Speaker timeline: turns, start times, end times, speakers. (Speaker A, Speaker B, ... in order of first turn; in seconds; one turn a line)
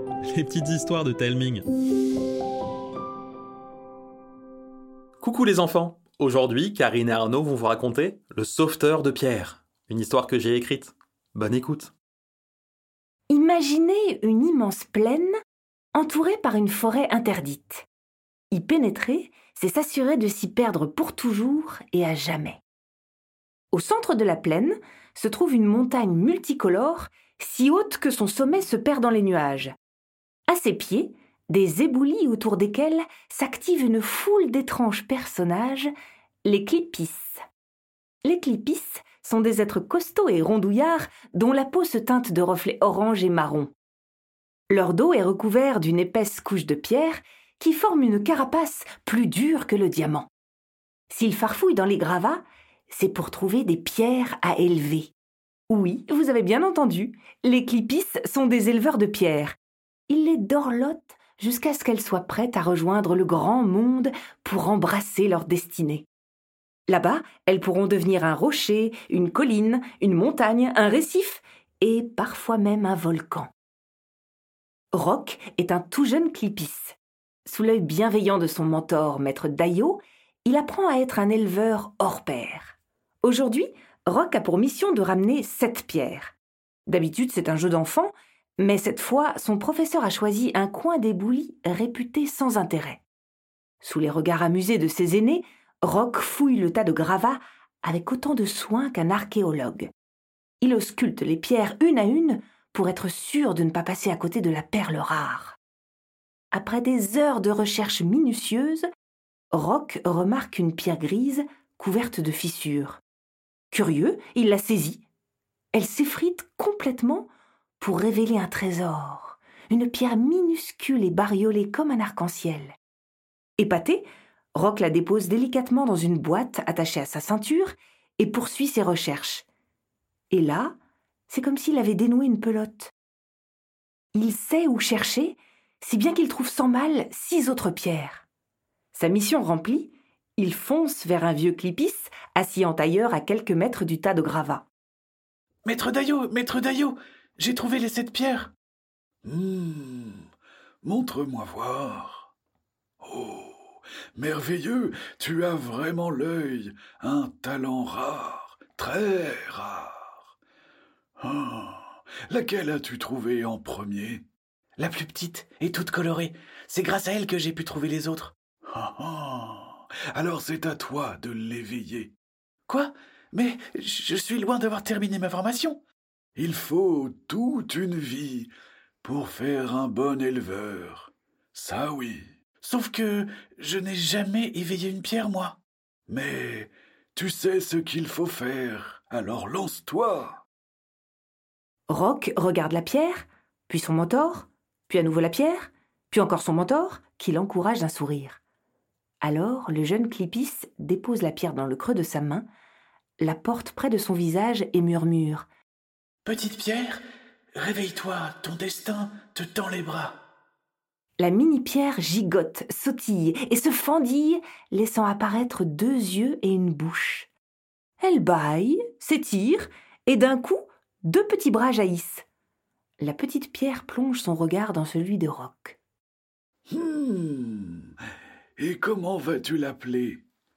Speaker A: 0.3-1.6
Speaker A: 5.2-11.9
Speaker B: 13.3-15.3
Speaker B: 15.9-17.9
Speaker B: 18.5-22.6
Speaker B: 23.7-29.7
Speaker B: 30.5-35.9
Speaker B: 36.5-37.4
Speaker B: 38.2-43.7
Speaker B: 44.7-50.3
Speaker B: 51.1-55.1
Speaker B: 55.7-59.6
Speaker B: 60.1-66.1
Speaker B: 66.9-73.5
Speaker B: 74.9-86.3
Speaker B: 86.9-93.0
Speaker B: 93.8-99.9
Speaker B: 100.6-105.6
Speaker B: 106.5-108.8
Speaker B: 109.5-113.0
Speaker B: 113.7-115.0
Speaker B: 115.7-122.8
Speaker B: 123.6-124.0
Speaker B: 124.5-129.5
Speaker B: 130.3-130.8
Speaker B: 131.3-132.9
Speaker B: 134.2-138.3
Speaker B: 138.9-144.7
Speaker C: 145.7-148.5
Speaker D: 149.2-150.2
Speaker D: 150.8-152.3
Speaker D: 153.0-160.2
Speaker D: 161.2-164.2
Speaker C: 164.8-168.3
Speaker D: 168.7-172.1
Speaker C: 172.7-175.8
Speaker D: 176.4-178.5
Speaker D: 179.0-182.3
Speaker C: 182.6-185.6
Speaker D: 186.1-190.4
Speaker B: 191.9-198.4
Speaker B: 199.2-202.5
Speaker B: 203.2-205.5
Speaker C: 206.3-207.0
Speaker C: 207.6-210.0
Speaker B: 211.2-217.3
Speaker B: 218.0-222.2
Speaker B: 223.0-225.8
Speaker D: 226.7-227.9
Speaker D: 228.6-230.2